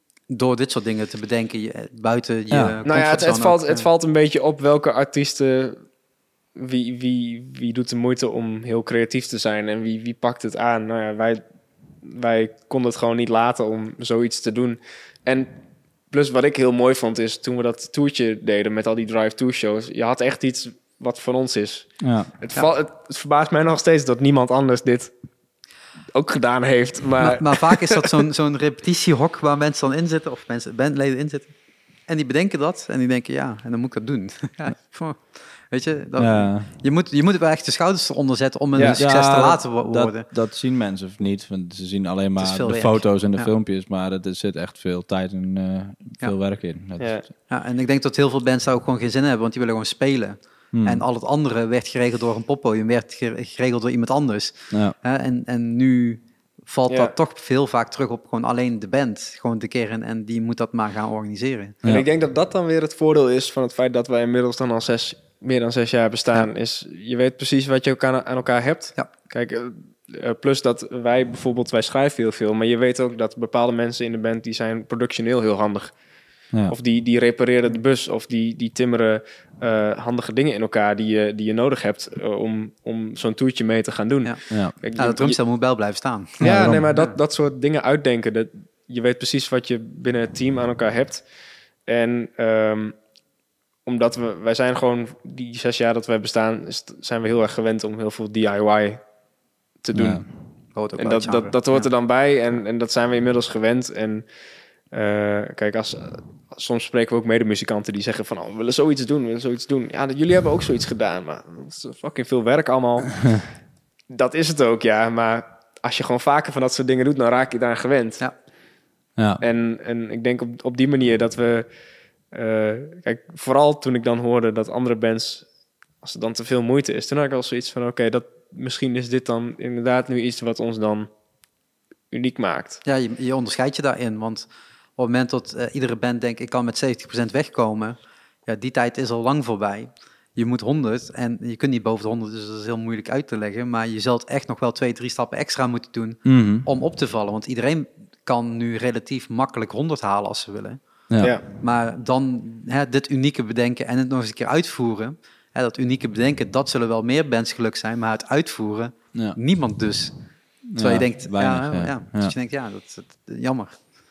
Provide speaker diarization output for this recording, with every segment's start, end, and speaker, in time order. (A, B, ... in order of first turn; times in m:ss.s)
0:00.3-0:03.9 A
0:02.5-0:02.8 B
0:02.8-0:05.8 C
0:06.6-0:11.4 C
0:12.0-0:15.6 C
0:16.1-0:25.1 C
0:22.0-0:22.3 B
0:26.1-0:28.1 C
0:27.2-0:31.5 A
0:32.1-0:40.3 A
0:36.2-0:36.7 B
0:38.8-0:39.0 C
0:38.8-0:47.2 B
0:42.4-0:43.5 A
0:47.0-0:47.2 C
0:47.5-1:01.8 A
0:50.7-0:51.0 B
1:01.8-1:15.9 C
1:16.7-1:25.4 C
1:24.9-1:27.1 A
1:26.4-1:31.2 C
1:26.4-1:26.8 B
1:31.9-1:33.0 C
1:33.9-1:39.0 C
1:39.8-1:40.3 C
1:39.9-1:40.3 B
1:40.8-1:41.9 A
1:41.0-1:44.3 C
1:44.9-1:53.5 C
1:54.1-1:58.3 C
1:59.4-2:01.7 C
2:02.3-2:05.5 C
2:06.0-2:11.1 C
2:12.1-2:12.8 C
2:12.8-2:30.8 A
2:26.2-2:26.7 B
2:31.1-2:31.4 B
2:31.5-2:40.1 A
2:40.7-2:42.4 B
2:40.8-2:43.8 A